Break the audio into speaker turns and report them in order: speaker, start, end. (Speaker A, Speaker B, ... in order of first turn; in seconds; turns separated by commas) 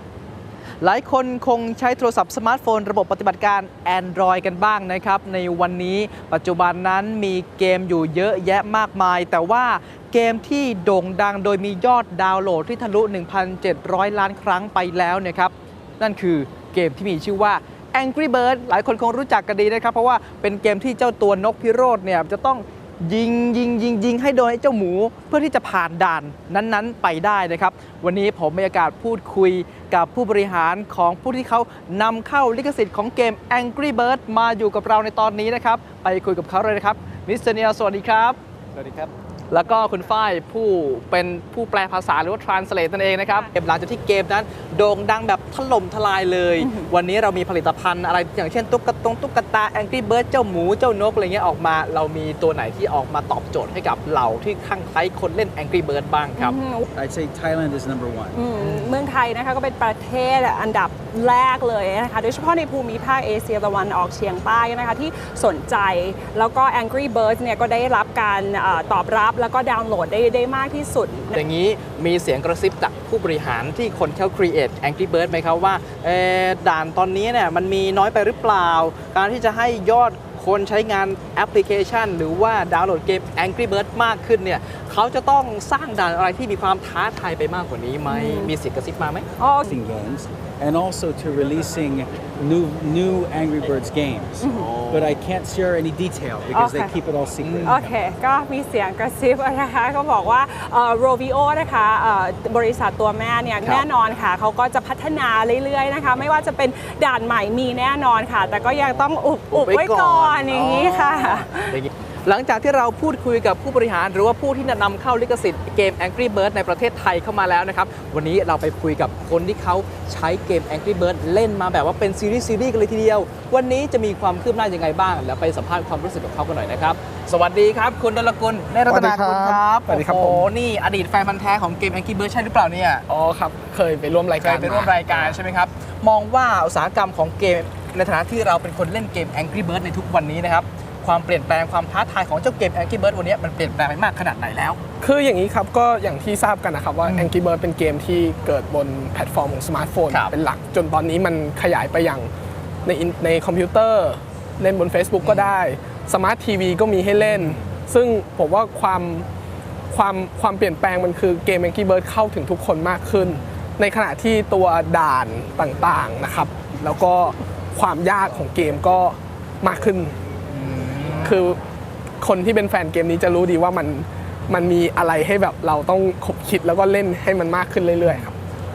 Speaker A: 0.8-56.6, Speaker B: 46.6-46.9, Speaker B: 56.4-56.9, Speaker C: 56.9-58.5, Speaker B: 58.3-71.4, Speaker A: 58.6-58.9, Speaker A: 71.3-89.3, Speaker B: 88.1-88.5, Speaker B: 89.4-89.8, Speaker C: 89.6-98.0, Speaker B: 94.4-94.7, Speaker A: 94.5-95.1, Speaker B: 96.5-97.0, Speaker A: 97.4-97.8, Speaker B: 97.6-111.8, Speaker A: 108.5-133.1, Speaker D: 128.9-130.5, Speaker D: 133.1-135.4, Speaker A: 134.4-144.8, Speaker D: 145.0-152.3, Speaker A: 147.1-147.3, Speaker D: 152.8-159.3, Speaker A: 155.2-155.6, Speaker A: 157.2-157.7, Speaker D: 159.9-170.2, Speaker A: 170.5-171.4, Speaker D: 171.2-171.6, Speaker D: 172.2-178.4, Speaker A: 178.0-178.3